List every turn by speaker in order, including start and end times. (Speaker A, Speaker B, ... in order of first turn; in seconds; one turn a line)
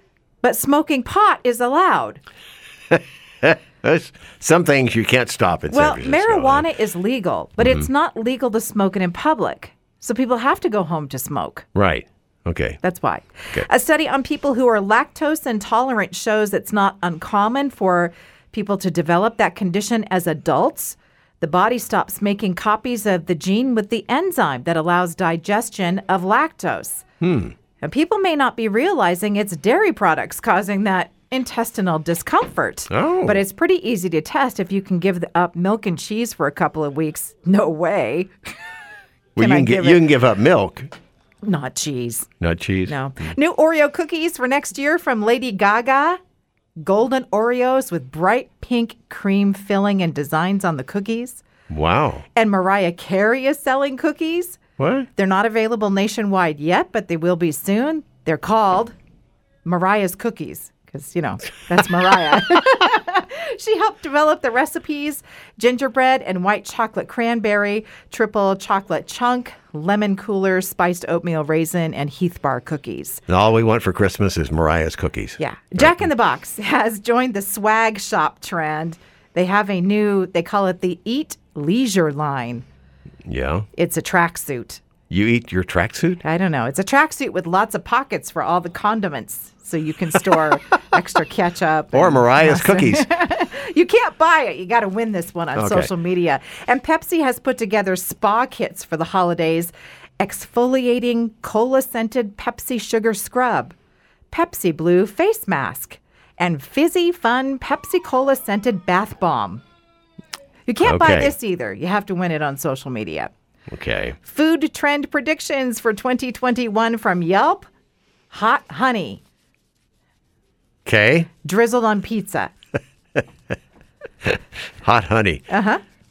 Speaker A: 0.4-2.2
Speaker B: 2.9-6.7
Speaker A: 5.7-11.7
Speaker B: 11.8-12.8
Speaker A: 12.8-27.1
Speaker B: 27.2-27.5
Speaker A: 27.8-38.3
Speaker B: 32.9-33.4
Speaker B: 39.4-40.9
Speaker A: 39.4-40.1
Speaker A: 41.4-42.3
Speaker B: 42.4-43.0
Speaker A: 42.9-46.2
Speaker A: 46.8-51.4
Speaker B: 51.7-52.2
Speaker A: 52.4-54.6
Speaker B: 54.8-55.1
Speaker A: 55.2-58.9
Speaker A: 59.6-73.2
Speaker B: 73.3-75.9
Speaker A: 75.4-82.7
Speaker B: 83.3-83.7
Speaker A: 83.8-84.8
Speaker B: 85.1-86.2
Speaker A: 86.2-103.7
Speaker B: 91.9-93.1
Speaker B: 95.5-95.9
Speaker A: 104.3-109.6
Speaker A: 110.7-113.3
Speaker B: 110.8-111.3
Speaker B: 113.7-114.2
Speaker A: 114.2-117.7
Speaker A: 118.3-119.2
Speaker B: 120.8-121.3
Speaker A: 121.4-122.5
Speaker B: 124.8-125.5
Speaker A: 125.5-125.8